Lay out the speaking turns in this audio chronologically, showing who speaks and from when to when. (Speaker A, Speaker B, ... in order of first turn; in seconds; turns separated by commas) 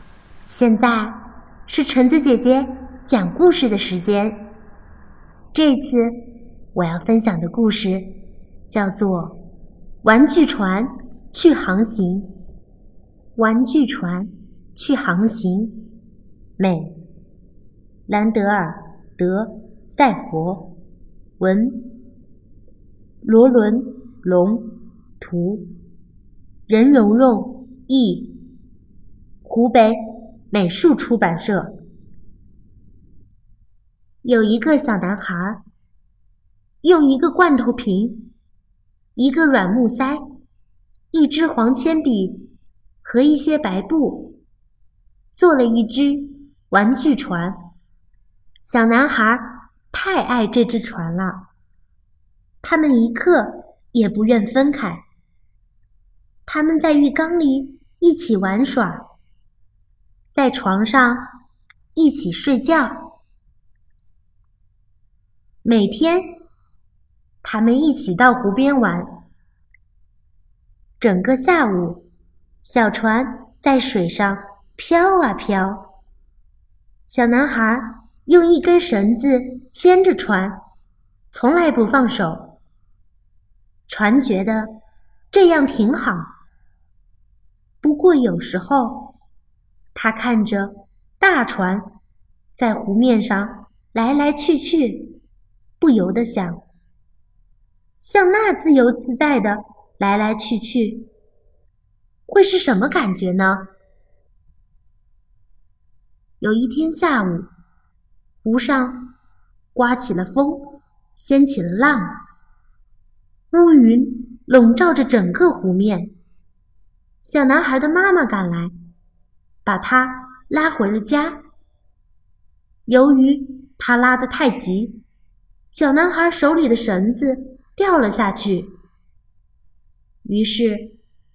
Speaker A: 0.5-4.5, Speaker A: 5.5-8.1, Speaker A: 8.7-9.4, Speaker A: 10.0-12.3, Speaker A: 13.3-15.9, Speaker A: 16.6-17.0, Speaker A: 18.1-20.8, Speaker A: 21.4-22.0, Speaker A: 23.2-25.7, Speaker A: 26.7-28.4, Speaker A: 29.4-31.8, Speaker A: 34.2-35.6, Speaker A: 36.8-38.3, Speaker A: 39.1-40.2, Speaker A: 41.1-42.5, Speaker A: 43.0-44.4, Speaker A: 45.3-47.6, Speaker A: 48.6-51.5, Speaker A: 52.6-55.0, Speaker A: 56.5-59.1, Speaker A: 60.3-61.3, Speaker A: 61.9-63.1, Speaker A: 65.6-66.4, Speaker A: 67.4-69.2, Speaker A: 71.0-72.0, Speaker A: 72.6-75.9, Speaker A: 77.1-80.6, Speaker A: 81.3-82.6, Speaker A: 83.9-84.8, Speaker A: 85.3-86.3, Speaker A: 87.8-89.1, Speaker A: 89.9-92.0, Speaker A: 92.5-95.2, Speaker A: 95.8-96.6, Speaker A: 98.0-101.1, Speaker A: 102.3-103.7, Speaker A: 106.4-107.5, Speaker A: 108.4-109.1, Speaker A: 109.7-112.2, Speaker A: 113.5-116.1, Speaker A: 117.2-118.7, Speaker A: 119.6-121.4, Speaker A: 122.9-125.0, Speaker A: 125.7-128.7, Speaker A: 130.2-130.9